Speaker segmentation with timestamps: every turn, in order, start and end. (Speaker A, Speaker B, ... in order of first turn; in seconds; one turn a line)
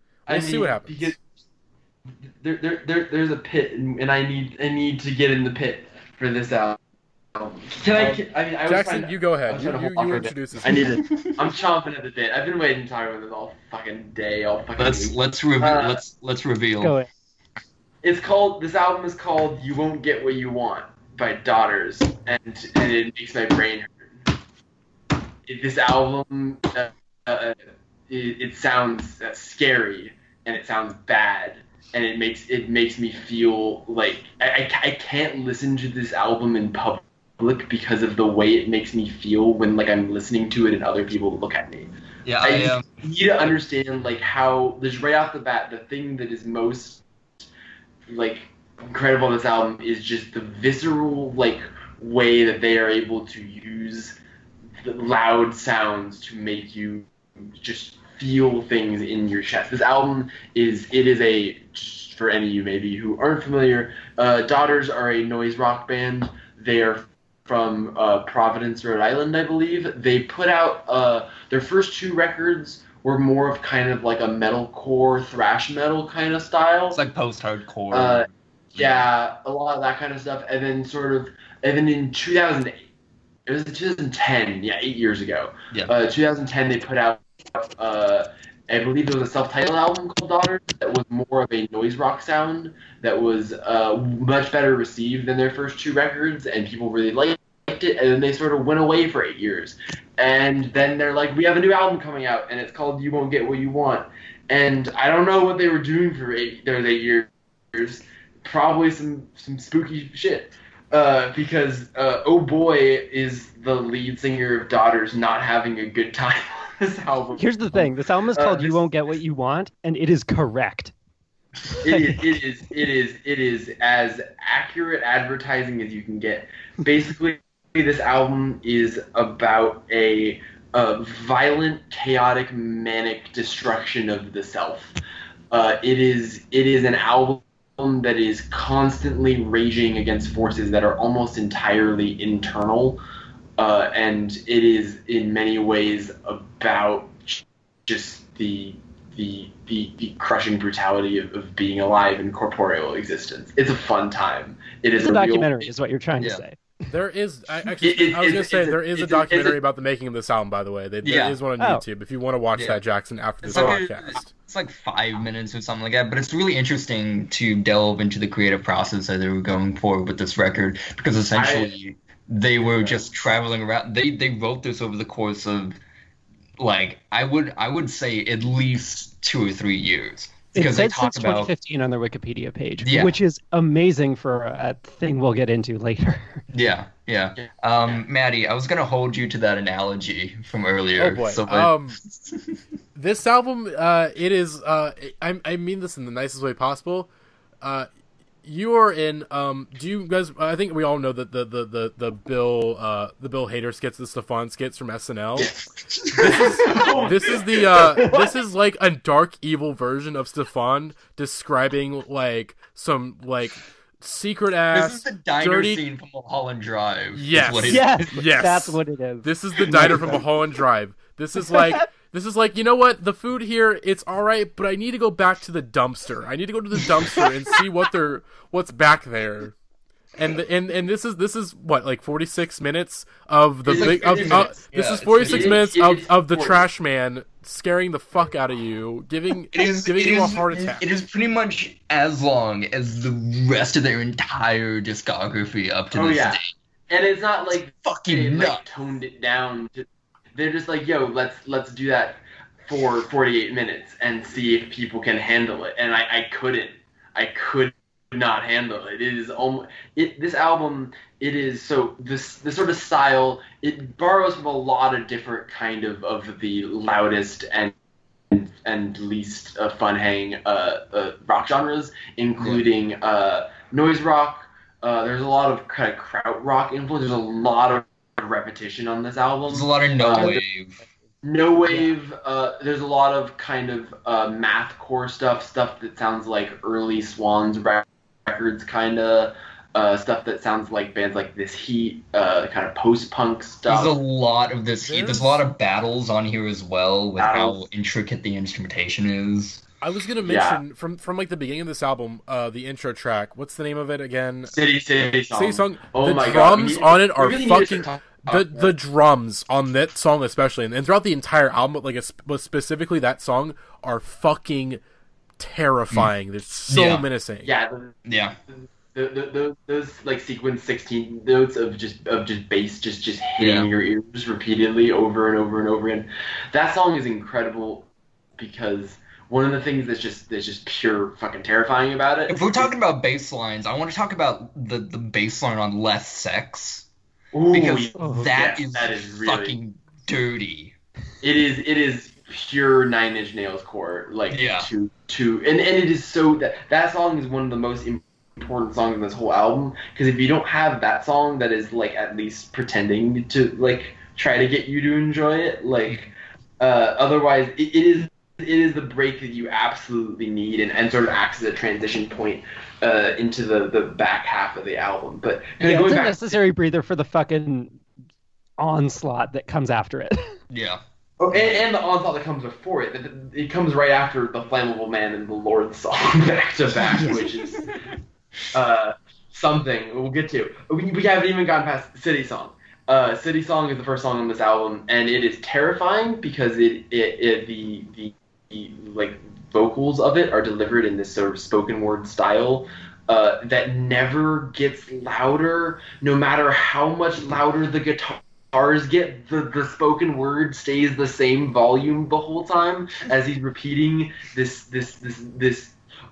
Speaker A: 0.3-1.2
Speaker B: 0.3-1.2
Speaker A: 2.4-6.8
Speaker A: 7.3-16.0
Speaker B: 7.9-11.0
Speaker C: 10.7-11.3
Speaker C: 14.8-16.9
Speaker D: 16.8-17.1
Speaker A: 18.0-24.1
Speaker A: 25.5-27.6
Speaker A: 28.1-41.9
Speaker C: 42.2-42.9
Speaker A: 42.4-47.0
Speaker A: 48.1-54.2
Speaker A: 54.8-77.0
Speaker C: 76.9-79.1
Speaker A: 77.9-82.8
Speaker A: 83.5-118.9
Speaker D: 117.4-120.9
Speaker D: 121.7-122.4
Speaker A: 121.8-134.9
Speaker A: 135.5-143.0
Speaker A: 143.6-155.7
Speaker D: 154.9-156.6
Speaker B: 156.9-164.3
Speaker A: 157.8-159.6
Speaker C: 161.0-161.4
Speaker C: 162.5-162.8
Speaker C: 163.4-175.8
Speaker A: 163.4-163.8
Speaker A: 171.4-171.7
Speaker A: 172.6-173.1
Speaker C: 176.6-181.5
Speaker D: 180.5-186.4
Speaker C: 182.8-183.2
Speaker C: 186.5-192.6
Speaker A: 187.4-188.1
Speaker B: 191.0-192.0
Speaker B: 192.9-197.1
Speaker B: 197.6-197.9
Speaker B: 198.4-205.5
Speaker C: 205.5-206.9
Speaker A: 206.1-208.2
Speaker B: 206.2-215.8
Speaker C: 214.7-218.1
Speaker B: 217.1-229.6
Speaker D: 217.7-220.2
Speaker C: 219.7-220.2
Speaker B: 230.2-240.8
Speaker A: 233.7-234.6
Speaker C: 233.7-235.6
Speaker A: 235.2-236.6
Speaker C: 239.5-246.5
Speaker A: 245.9-267.7
Speaker C: 247.8-248.6
Speaker A: 268.3-280.4
Speaker C: 272.4-272.7
Speaker C: 279.5-280.8
Speaker A: 281.2-293.9
Speaker C: 293.7-299.6
Speaker B: 294.9-295.4
Speaker A: 297.2-297.6
Speaker B: 299.8-304.5
Speaker A: 300.2-300.6
Speaker A: 304.5-308.7
Speaker B: 305.3-314.8
Speaker B: 315.4-317.5
Speaker C: 316.7-317.1
Speaker A: 317.4-318.0
Speaker C: 318.1-318.4
Speaker A: 318.5-332.7
Speaker C: 323.4-323.7
Speaker C: 332.3-336.9
Speaker A: 337.3-339.6
Speaker C: 337.5-340.8
Speaker D: 338.0-338.4
Speaker A: 341.2-366.4
Speaker C: 344.3-344.7
Speaker D: 365.6-367.8
Speaker D: 368.6-370.3
Speaker C: 370.5-370.8
Speaker A: 371.2-377.7
Speaker C: 371.3-371.7
Speaker C: 376.8-377.9
Speaker A: 378.5-405.8